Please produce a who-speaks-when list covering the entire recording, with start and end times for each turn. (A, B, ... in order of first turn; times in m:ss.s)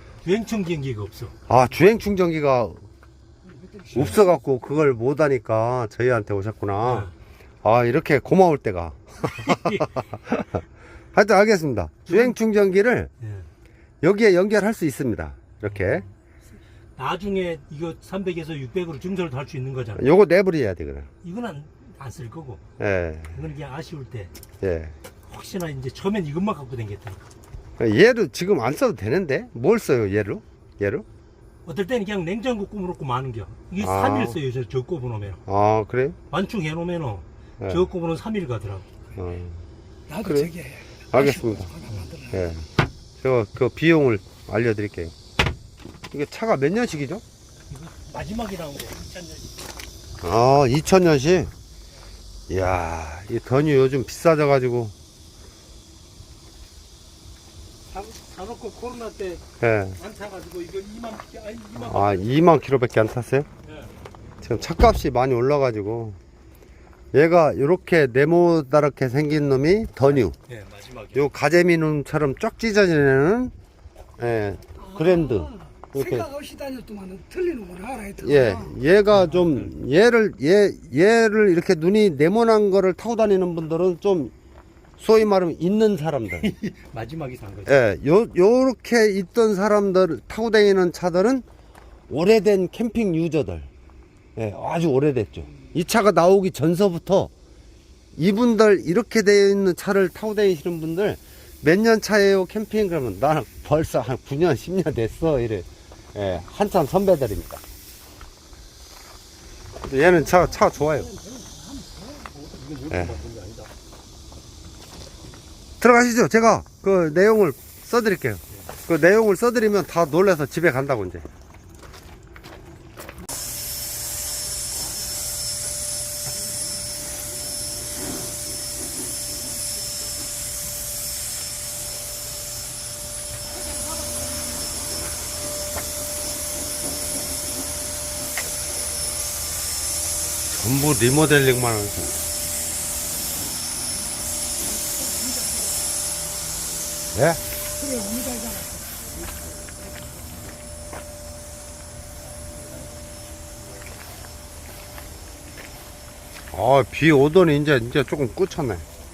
0:00.2-0:01.4 A
0:01.5-0:02.8 B
0:03.9-0:07.1 B
0:06.8-0:07.1 A
0:07.6-0:10.6 B
0:09.2-0:10.1 A
0:11.1-0:13.1 B
0:12.0-0:12.4 A
0:13.2-0:13.5 A
0:14.0-0:16.0 B
0:15.6-0:16.1 A
0:17.0-0:20.1 A
0:20.0-0:21.1 B
0:21.2-0:22.6 A
0:22.8-0:23.4 B
0:23.3-0:24.3 A
0:24.6-0:24.9 B
0:25.2-0:27.3 A
0:27.8-0:31.0 B
0:31.6-0:35.4 A
0:33.8-0:34.4 B
0:35.5-0:36.2 B
0:36.3-0:39.1 A
0:39.2-0:39.6 B
0:40.1-0:42.4 C
0:40.2-0:40.5 B
0:41.1-0:41.7 B
0:42.3-0:42.6 B
0:43.2-0:45.1 B
0:46.1-0:47.2 B
0:47.7-0:49.6 A
0:50.2-0:51.5 B
0:52.5-0:54.9 B
0:57.9-0:59.4 A
0:59.6-1:00.0 B
1:00.0-1:02.3 A
1:01.8-1:03.5 B
1:04.4-1:06.2 B
1:07.1-1:10.4 B
1:10.1-1:11.2 A
1:11.1-1:13.5 B
1:14.2-1:16.3 B
1:14.8-1:18.8 C
1:18.2-1:24.3 B
1:19.1-1:19.7 A
1:25.0-1:26.5 B
1:26.3-1:27.8 A
1:27.6-1:31.4 B
1:32.1-1:33.7 B
1:34.4-1:37.3 B
1:38.1-1:47.6 B
1:49.8-1:51.1 B
1:50.3-1:52.2 C
1:52.2-1:53.7 A
1:52.9-1:53.2 B
1:55.8-2:01.2 B
2:20.5-2:22.2 B
2:25.1-2:25.6 C
2:27.1-2:27.4 B
2:27.8-2:28.9 C
2:36.5-2:38.8 B